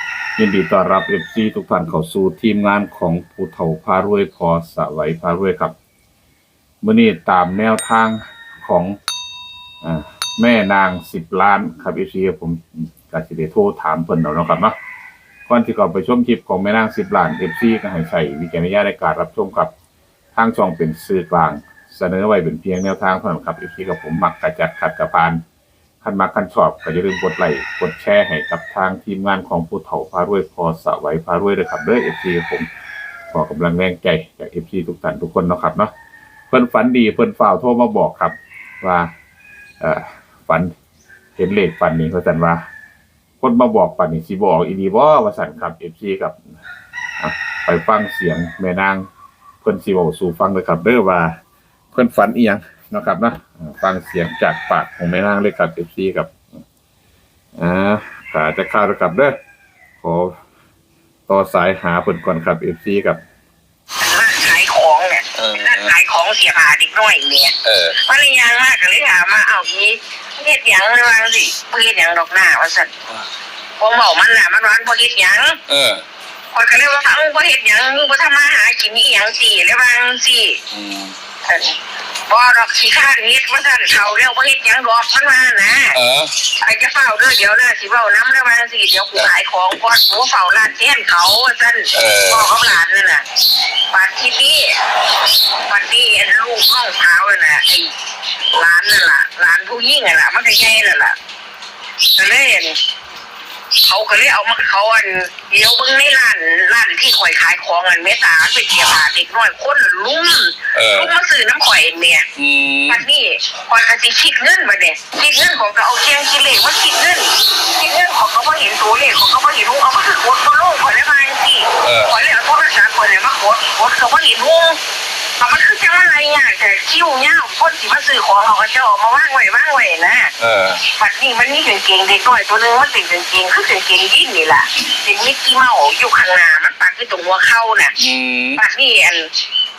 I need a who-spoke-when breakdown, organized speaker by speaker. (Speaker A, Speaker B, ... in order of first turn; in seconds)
Speaker A: 0.4-5.7, 6.8-8.9, 9.8-14.8, 15.5-19.7, 20.3-25.4, 26.0-32.7, 33.3-35.9, 36.5-39.1, 39.8-40.7, 41.4-42.6, 43.4-46.4, 47.2-49.1, 49.6-51.3, 51.9-56.5, 57.6-59.4, 60.0-60.4, 61.3-63.2
Speaker B: 64.0-72.9, 73.8-75.6, 76.5-80.6, 81.5-81.8, 82.3-86.0, 86.6-93.2, 93.9-94.7, 95.7-97.9, 98.5-101.2, 102.2-102.8, 103.8-112.2, 112.9-124.8, 125.4-130.3, 131.0-137.9, 138.6-139.3
Speaker C: 65.4-65.9, 67.6-68.0, 75.7-76.0, 80.7-81.1, 85.9-86.3, 91.9-92.5, 110.7-111.1, 112.3-113.0, 121.8-122.1, 130.4-130.8, 138.0-138.6